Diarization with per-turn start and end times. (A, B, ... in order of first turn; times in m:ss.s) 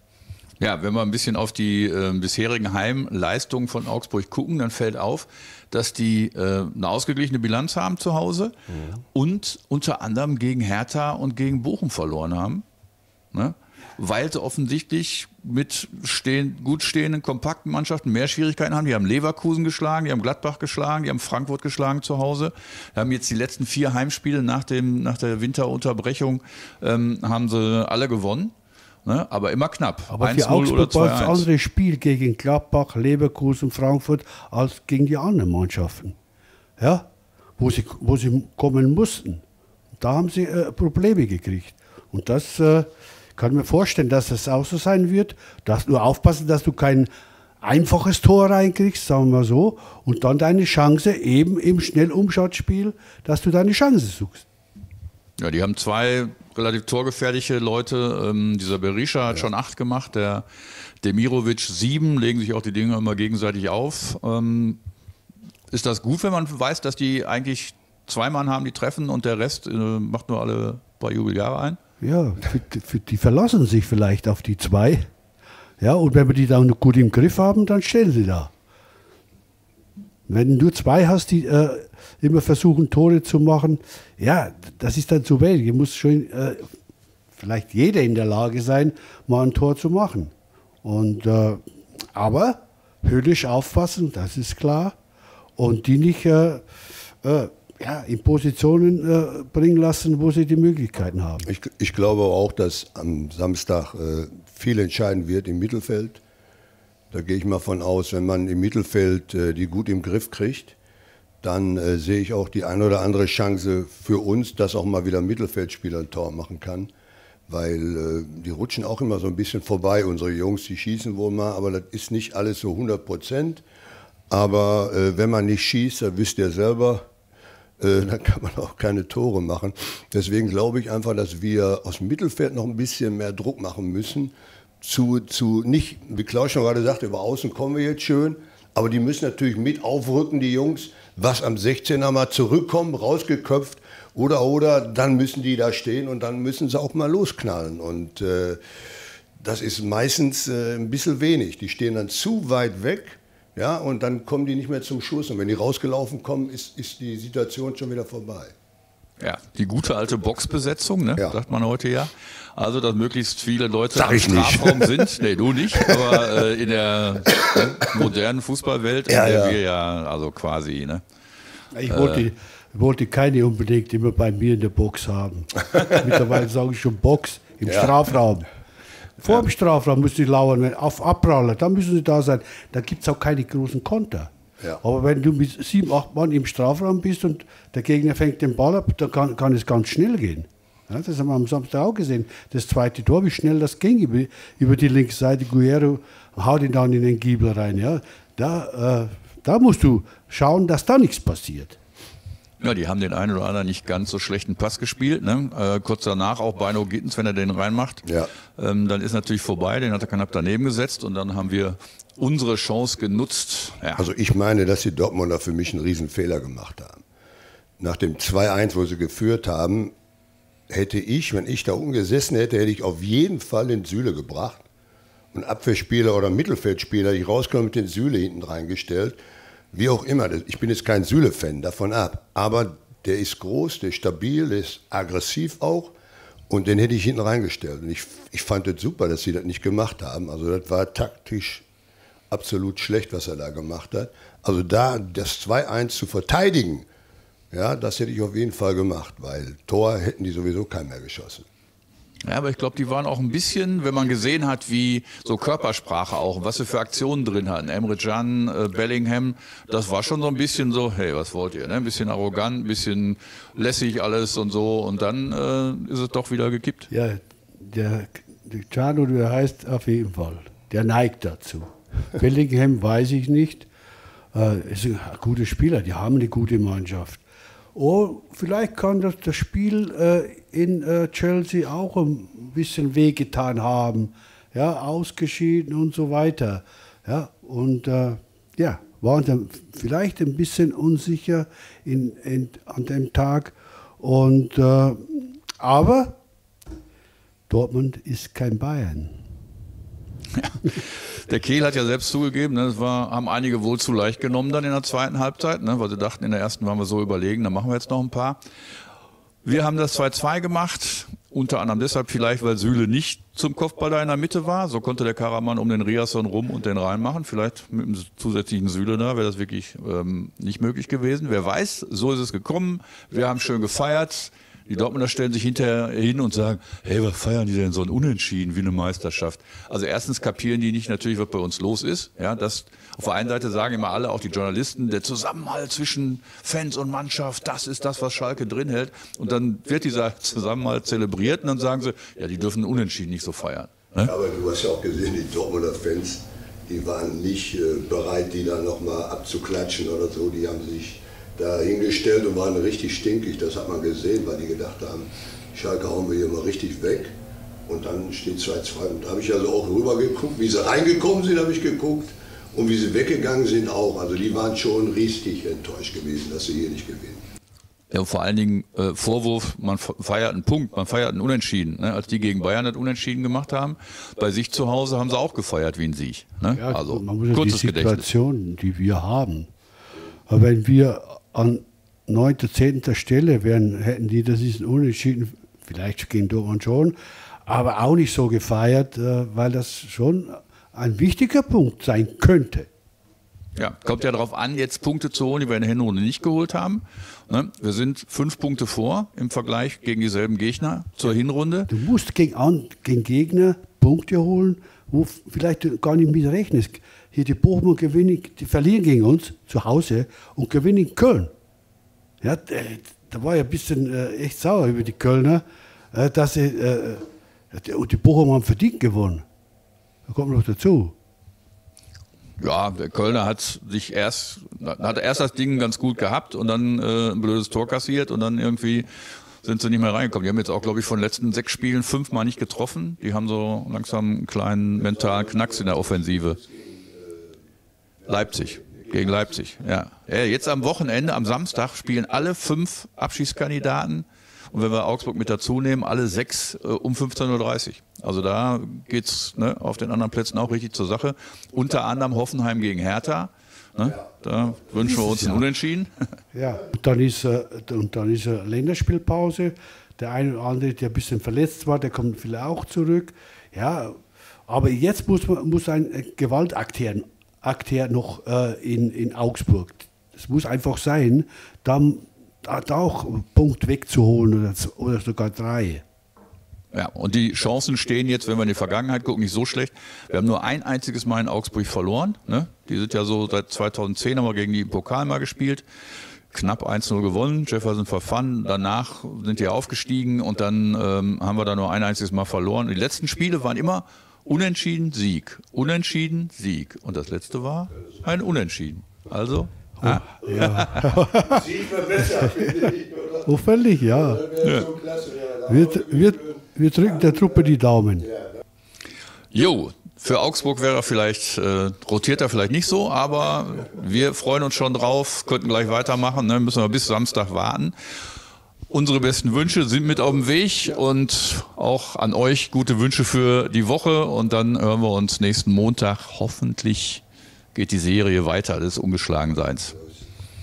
0:00.6-0:08.5 A
0:09.1-0:12.6 A
0:13.3-0:28.5 A
0:29.0-0:31.5 A
0:30.1-0:36.2 B
0:36.8-0:39.4 B
0:40.0-0:47.1 B
0:47.6-0:54.4 B
0:55.4-1:00.4 A
1:01.0-1:04.8 A
1:05.7-1:11.8 A
1:12.0-1:15.0 B
1:15.8-1:18.5 B
1:20.3-1:26.7 B
1:27.4-1:30.3 B
1:30.8-1:31.6 B
1:32.1-1:35.0 B
1:35.6-1:36.7 B
1:37.2-1:41.5 B
1:41.4-1:46.2 C
1:47.1-1:50.8 C
1:51.4-1:56.9 C
1:57.5-2:03.6 C
2:04.3-2:07.0 C
2:07.8-2:28.6 C
2:29.4-2:38.5 C
2:39.2-2:51.0 A
2:43.9-2:45.0 C
2:49.1-2:49.6 C
2:51.8-2:58.5 B
2:51.9-2:52.2 A
2:57.7-2:58.0 C
2:59.2-3:04.3 B
3:04.8-3:21.8 B
3:22.6-3:28.0 A
3:28.0-3:28.3 C
3:28.6-3:34.0 A
3:34.0-3:37.0 C
3:37.8-3:39.9 C
3:40.7-3:44.6 C
3:45.3-3:49.2 C
3:49.7-3:55.9 C
3:56.5-4:01.6 C
4:02.3-4:06.9 C
4:07.5-4:11.5 C
4:12.2-4:26.9 A
4:26.9-4:33.7 B
4:34.3-4:37.2 B
4:37.8-4:56.2 B
4:57.5-4:59.1 B
5:00.4-5:08.4 A
5:09.4-5:44.1 A
5:44.0-5:57.1 C
5:57.7-6:07.2 C
6:07.9-6:18.1 A
6:16.5-6:19.5 B
6:20.3-6:32.7 B
6:33.6-6:41.7 A
6:41.7-6:51.3 B
6:52.2-6:59.2 B
7:00.1-7:00.9 B
7:02.4-7:08.9 A
7:09.4-7:16.4 A
7:14.9-7:17.4 C
7:18.0-7:19.2 C
7:18.1-7:35.9 A
7:34.8-7:35.4 B
7:36.3-7:55.8 B
7:56.7-8:05.6 A
8:06.3-8:20.9 A
8:19.8-8:21.5 B
8:21.3-8:23.3 C
8:23.2-8:24.3 B
8:23.9-8:26.4 C
8:24.4-8:24.7 A
8:25.5-8:28.1 B
8:29.3-8:37.8 A
8:38.7-8:47.0 A
8:47.5-8:49.8 A